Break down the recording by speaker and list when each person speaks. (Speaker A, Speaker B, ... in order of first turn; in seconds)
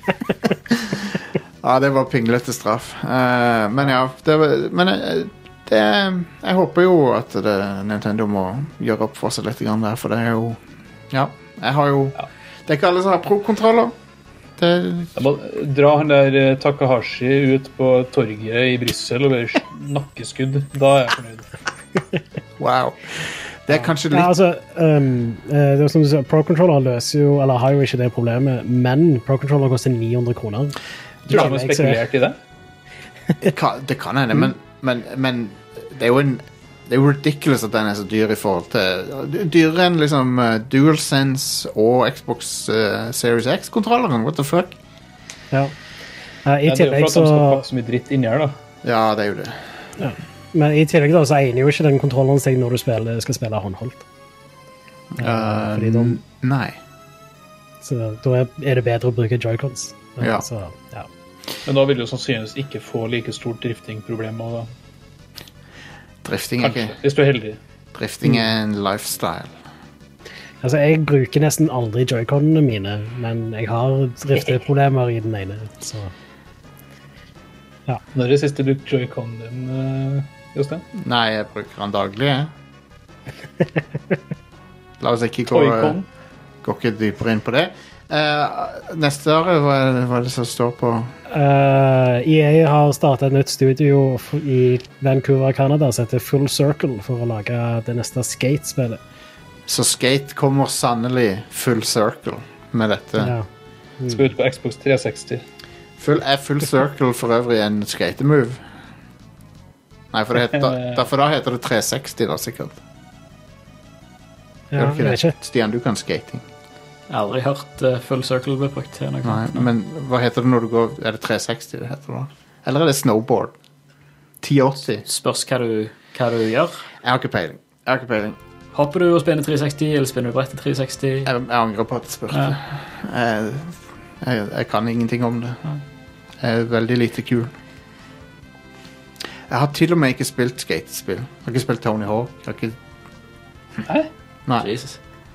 Speaker A: 0.7-10.6, 11.1-13.9, 14.6-15.2, 22.6-24.3, 33.4-44.7, 48.8-49.6, 55.1-56.8, 60.2-60.4, 66.2-67.0, 67.9-69.5, 81.0-82.5, 85.0-86.0, 86.6-91.1, 99.7-103.3, 106.0-108.6, 110.1-112.8, 114.8-116.5, 119.2-123.5, 124.4-125.0, 127.0-128.4, 131.2-135.6, 136.4-137.5, 139.5-142.8
Speaker B: 15.2-21.5, 31.3-32.4, 46.6-48.5, 61.6-64.7, 66.6-67.6, 78.1-80.8, 85.5-86.1, 104.1-105.4, 110.5-111.0
Speaker C: 23.8-30.8, 31.3-32.0, 46.4-47.6, 50.0-54.0, 55.2-56.2, 57.8-61.1, 70.6-76.1, 91.3-99.0, 103.2-103.5, 114.7-115.3
Speaker D: 117.1-119.7, 125.0-126.8, 128.7-131.3, 144.6-145.0